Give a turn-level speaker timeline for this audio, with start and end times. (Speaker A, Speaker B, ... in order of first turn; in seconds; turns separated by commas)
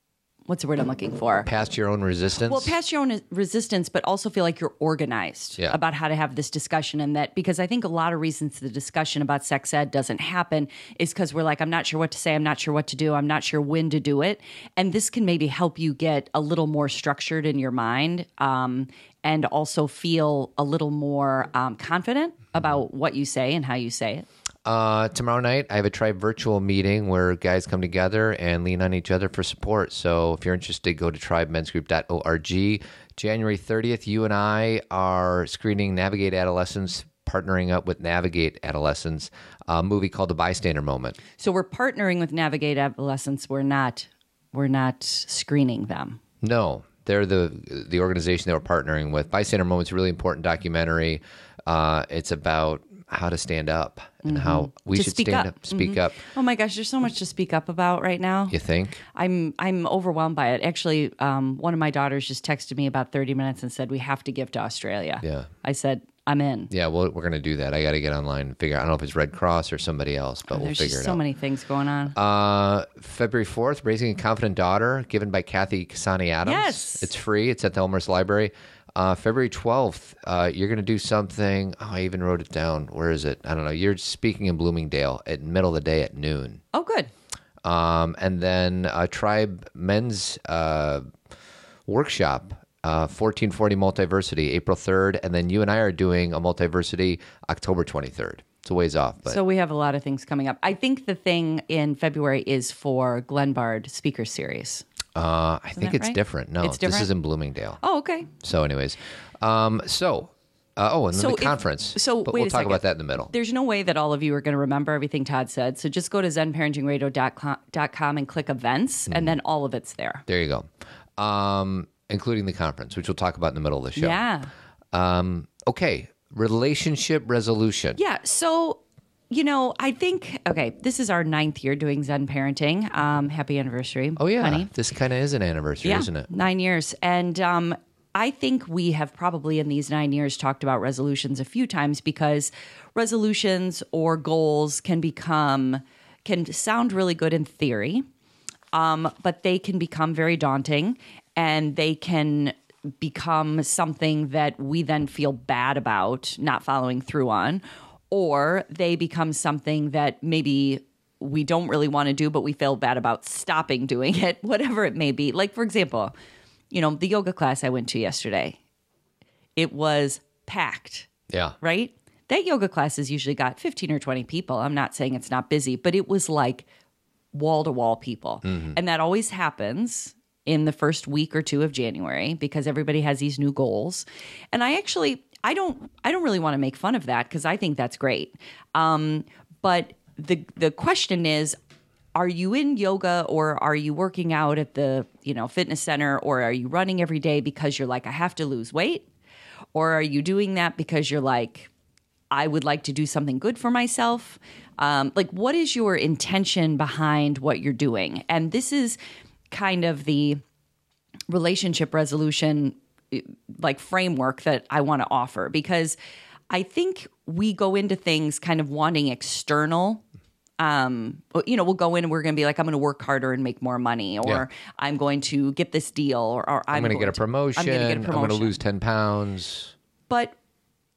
Speaker A: 0.5-1.5, Speaker B: 1.4-2.7, Speaker A: 2.5-24.2, Speaker B: 24.6-41.2, Speaker A: 41.4-46.2, Speaker B: 46.4-56.2, Speaker A: 54.2-58.6, Speaker B: 58.5-59.0, Speaker A: 59.1-66.7, Speaker B: 65.2-65.5, Speaker B: 66.7-71.2, Speaker A: 70.5-72.2, Speaker B: 72.1-86.6, Speaker A: 76.4-77.1, Speaker A: 86.7-87.1, Speaker B: 87.6-91.1, Speaker B: 91.9-99.4, Speaker A: 99.2-104.8, Speaker B: 105.2-107.8, Speaker A: 105.8-107.1, Speaker A: 107.8-108.3, Speaker B: 108.4-113.3, Speaker A: 111.1-120.2, Speaker B: 120.3-124.2, Speaker A: 124.0-124.5, Speaker B: 124.9-128.0, Speaker A: 128.0-134.7, Speaker B: 134.2-136.3, Speaker A: 135.8-148.1, Speaker A: 148.7-166.1, Speaker A: 166.7-168.6, Speaker A: 169.6-171.1, Speaker B: 171.3-171.6, Speaker A: 171.6-176.7, Speaker A: 177.3-191.6, Speaker B: 178.4-178.8, Speaker A: 192.1-199.1, Speaker A: 199.7-201.7, Speaker A: 202.3-209.0, Speaker A: 209.5-210.4, Speaker A: 211.3-216.0, Speaker A: 216.5-220.0, Speaker A: 220.6-228.6, Speaker B: 226.7-229.7, Speaker A: 230.1-230.4